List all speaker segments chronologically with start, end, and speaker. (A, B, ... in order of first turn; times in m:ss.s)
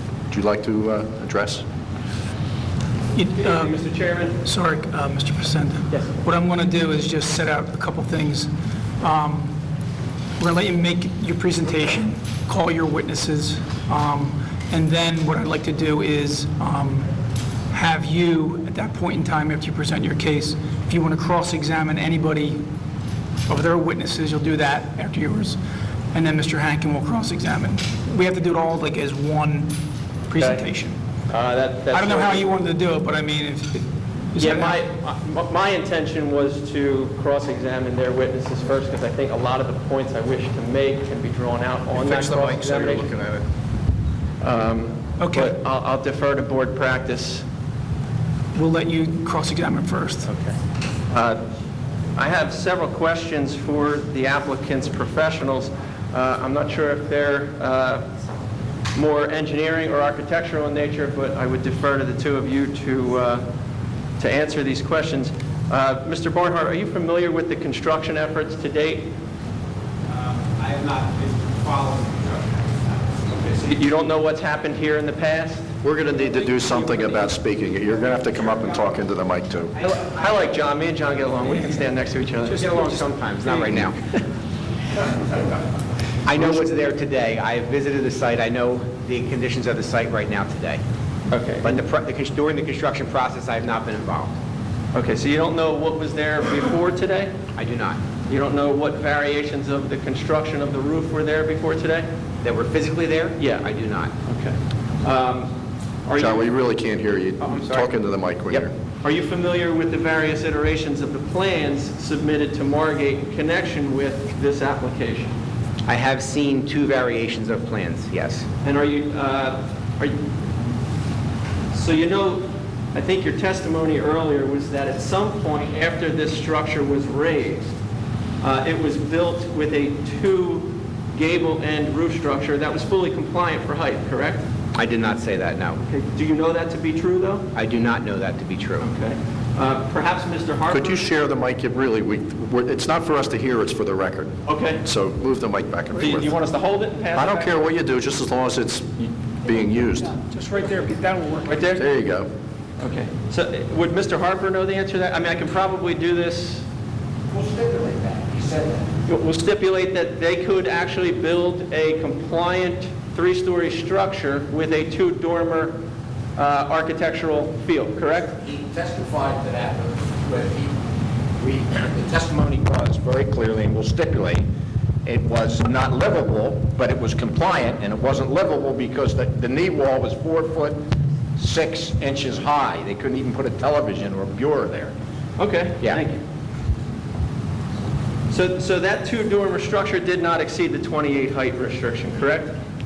0:00.3-0:01.6 A
0:03.2-0:03.7 B
0:03.4-0:04.4 C
0:04.4-0:08.5 B
0:09.0-0:09.6 B
0:10.4-0:17.1 B
0:17.7-0:22.6 B
0:23.5-0:25.6 B
0:26.1-0:29.7 B
0:30.3-0:31.0 B
0:30.4-0:30.7 C
0:31.3-0:32.5 C
0:31.9-0:34.8 B
0:34.4-0:43.1 C
0:42.0-0:43.4 A
0:44.4-0:47.4 C
0:45.2-0:45.5 B
0:48.6-0:50.3 B
0:51.1-0:51.4 C
0:52.2-0:58.0 C
0:59.0-1:03.4 C
1:04.2-1:09.1 C
1:10.1-1:13.7 D
1:13.6-1:15.7 C
1:15.8-1:19.7 A
1:19.7-1:20.5 D
1:19.8-1:22.7 C
1:22.5-1:24.0 D
1:26.2-1:30.8 D
1:31.3-1:31.8 C
1:31.6-1:34.4 D
1:34.9-1:37.3 C
1:37.6-1:38.0 D
1:38.3-1:42.1 C
1:42.4-1:44.1 D
1:43.4-1:43.7 C
1:44.2-1:45.5 C
1:46.1-1:46.5 C
1:46.2-1:48.7 A
1:47.4-1:47.9 D
1:49.0-1:55.3 C
1:55.9-1:58.5 D
1:58.6-2:00.2 C
2:01.7-2:07.7 C
2:08.4-2:14.4 C
2:14.8-2:15.8 D
2:15.8-2:17.5 C
2:17.6-2:18.9 D
2:18.8-2:21.0 C
2:20.7-2:26.3 A
2:24.5-2:24.8 C
2:26.0-2:27.6 C
2:27.1-2:30.2 A
2:30.2-2:31.7 B
2:31.5-2:31.8 C
2:31.8-2:32.3 A
2:32.8-2:36.6 C
2:39.1-2:45.8 C
2:46.4-2:48.4 C
2:52.8-2:54.4 E
2:55.1-3:00.7 E
3:01.4-3:04.9 E
3:05.4-3:06.2 C
3:08.3-3:12.5 C